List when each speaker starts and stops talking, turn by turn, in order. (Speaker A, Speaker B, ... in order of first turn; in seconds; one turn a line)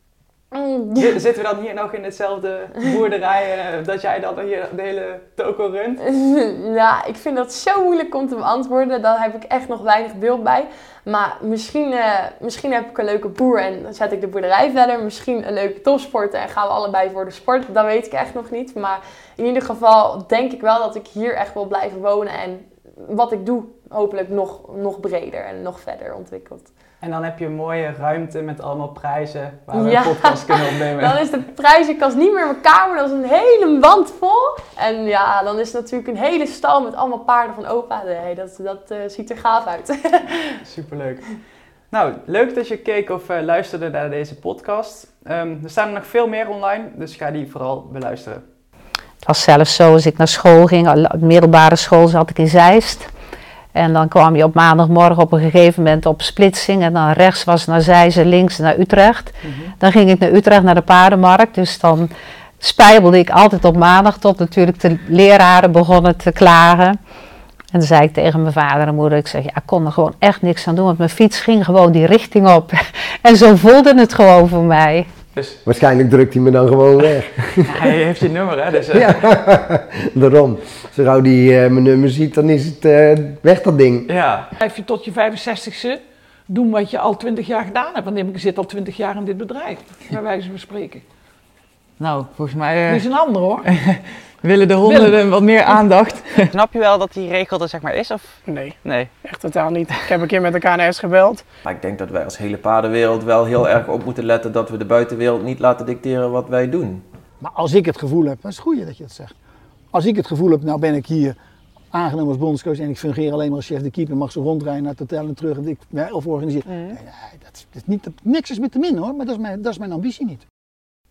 Speaker A: 0.5-1.2
Speaker B: 0.9-6.0
Speaker A: 6.0-26.7
Speaker B: 27.0-31.2
Speaker A: 29.7-40.6
Speaker B: 40.6-41.2
Speaker B: 41.9-48.4
Speaker C: 49.2-53.1
Speaker C: 53.7-67.0
Speaker B: 59.4-59.7
Speaker C: 67.7-75.1
Speaker B: 75.3-75.6
Speaker D: 75.6-77.7
Speaker B: 77.6-79.3
Speaker D: 78.9-84.1
Speaker B: 84.1-84.5
Speaker E: 84.6-91.0
Speaker B: 92.0-93.0
Speaker E: 92.9-93.7
Speaker B: 93.6-99.1
Speaker E: 94.9-95.1
Speaker F: 98.5-101.5
Speaker G: 101.7-107.0
Speaker H: 107.4-109.3
Speaker H: 109.9-111.4
Speaker H: 111.9-120.4
Speaker B: 116.6-117.0